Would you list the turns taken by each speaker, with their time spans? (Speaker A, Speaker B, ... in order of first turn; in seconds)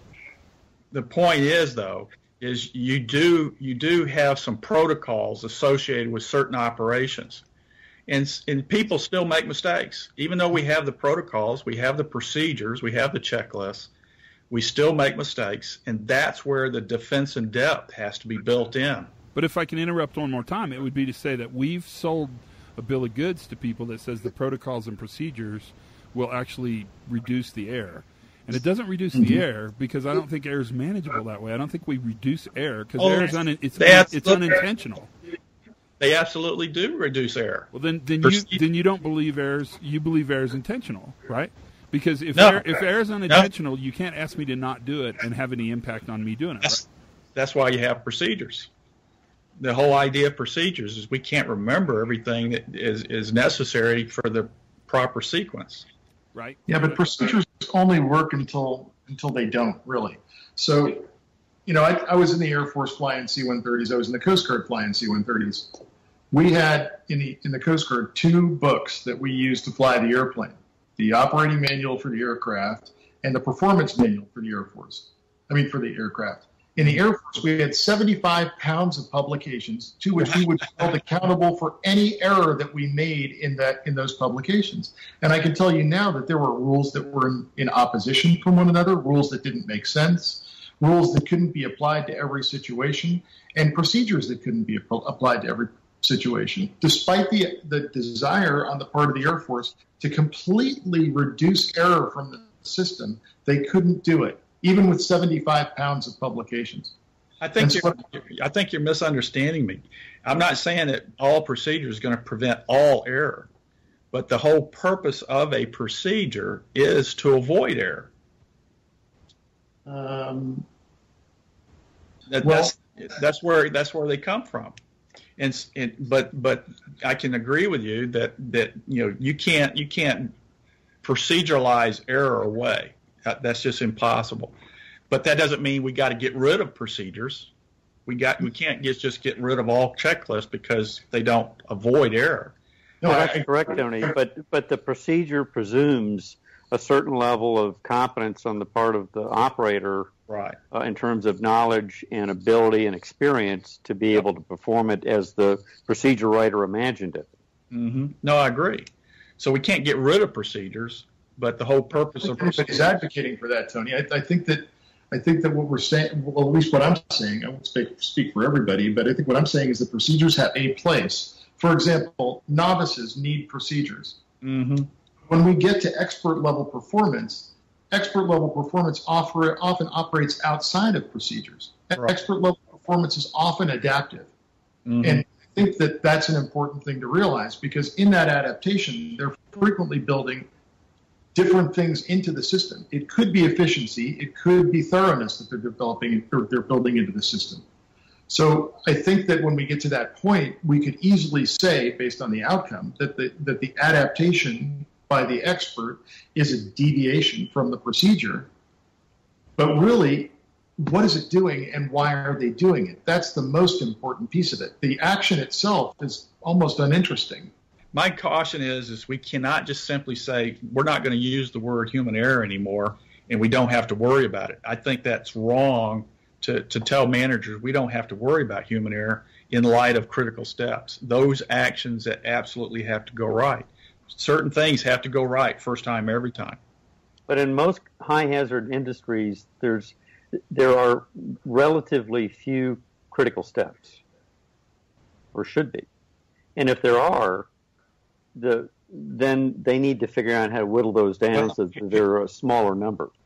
Speaker A: 0.9-7.4, 8.1-13.9, 14.5-19.1, 33.0-34.6, 36.0-37.7, 38.2-38.6, 42.3-42.6, 47.3-48.7, 49.6-55.9, 107.4-113.5, 114.1-118.1, 122.3-124.8, 125.4-130.3, 131.0-134.5, 135.1-137.5, 138.1-142.5, 150.3-150.6, 157.7-162.9, 174.4-174.9, 184.8-185.2, 217.9-236.6
Speaker B: 19.3-35.1, 37.7-46.8, 56.3-57.1
Speaker C: 56.7-61.1, 61.6-65.8, 66.3-106.9, 107.6-108.0, 119.8-120.7, 122.4-122.7, 143.0-144.1, 162.2-174.2, 175.3-184.3, 185.0-190.5, 191.3-197.6, 198.3-208.5, 209.6-217.5
Speaker D: 143.0-150.1, 150.7-157.3, 237.3-239.9, 240.5-244.0, 245.3-245.8, 246.6-247.5, 248.3-253.1